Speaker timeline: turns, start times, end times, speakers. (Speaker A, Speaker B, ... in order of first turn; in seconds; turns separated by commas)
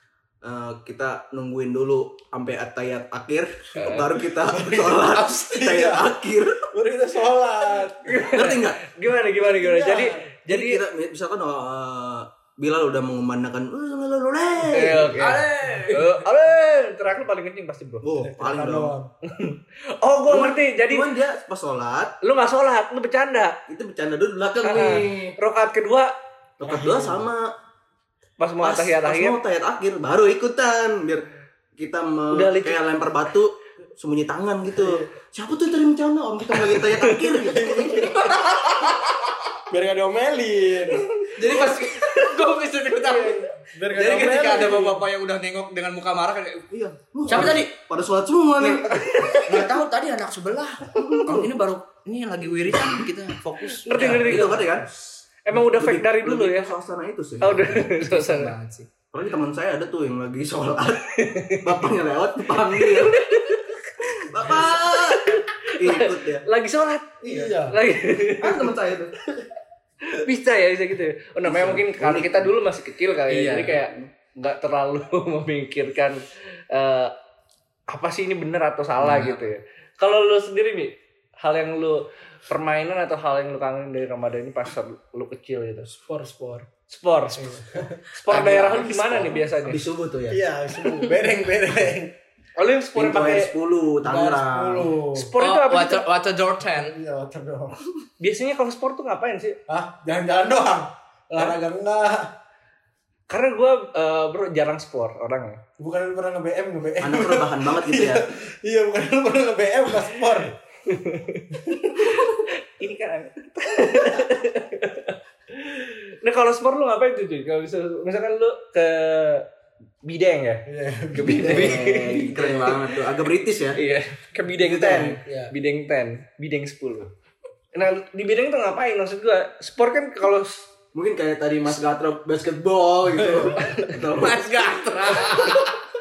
Speaker A: 0.4-6.7, Speaker B: 3.8-4.1, Speaker C: 4.6-6.1, Speaker D: 5.1-5.4, Speaker C: 6.7-8.3, Speaker B: 8.0-10.8, Speaker A: 8.3-8.9, Speaker C: 9.3-10.3, Speaker A: 10.5-15.8, Speaker B: 14.7-18.0, Speaker D: 15.1-16.2, Speaker A: 18.0-18.9, Speaker C: 18.2-19.1, Speaker B: 19.2-21.1, Speaker A: 20.3-22.1, Speaker B: 22.2-23.6, Speaker A: 23.7-25.4, Speaker B: 24.6-26.1, Speaker A: 26.6-27.5, Speaker C: 26.6-27.2, Speaker B: 28.4-29.4, Speaker A: 28.6-31.2, Speaker A: 31.8-38.3, Speaker B: 32.3-32.8, Speaker C: 34.7-35.0, Speaker B: 37.0-37.3, Speaker C: 37.4-38.4, Speaker B: 38.3-39.0, Speaker C: 39.7-41.1, Speaker B: 41.2-41.8, Speaker D: 41.3-46.6, Speaker B: 43.0-43.4, Speaker C: 43.6-45.0, Speaker A: 46.7-49.3, Speaker D: 47.2-47.7, Speaker B: 48.6-49.6, Speaker D: 49.4-54.5, Speaker A: 50.9-51.5, Speaker B: 53.7-54.7, Speaker A: 53.9-54.9, Speaker B: 55.4-56.7, Speaker A: 55.5-57.8, Speaker B: 57.4-58.5, Speaker D: 57.7-58.9, Speaker A: 59.1-63.3, Speaker B: 61.2-61.9, Speaker B: 62.6-68.7, Speaker A: 64.2-66.5, Speaker C: 67.2-67.8, Speaker A: 68.4-69.1, Speaker B: 70.0-77.1, Speaker A: 71.4-72.5, Speaker D: 73.3-73.8, Speaker A: 73.8-74.1, Speaker B: 77.9-85.9, Speaker D: 79.0-79.5, Speaker C: 85.9-86.7, Speaker B: 86.9-89.8, Speaker C: 87.3-88.0, Speaker D: 88.3-89.4, Speaker A: 89.2-90.4, Speaker C: 90.3-92.1, Speaker B: 92.6-93.5, Speaker A: 92.9-94.9, Speaker C: 94.0-95.3, Speaker B: 95.1-96.0, Speaker D: 95.4-96.9, Speaker C: 96.7-97.8, Speaker B: 98.2-99.6, Speaker C: 99.7-102.3, Speaker B: 103.3-105.6, Speaker C: 105.8-110.5, Speaker A: 107.0-108.3, Speaker B: 110.8-119.5, Speaker B: 120.0-122.9, Speaker C: 120.7-121.8, Speaker A: 121.2-123.8, Speaker B: 123.7-127.1, Speaker A: 124.6-125.2, Speaker C: 125.2-125.5, Speaker B: 127.7-130.7, Speaker A: 130.9-134.6, Speaker C: 133.3-133.7, Speaker B: 133.6-133.9, Speaker D: 134.0-135.8, Speaker A: 135.2-135.5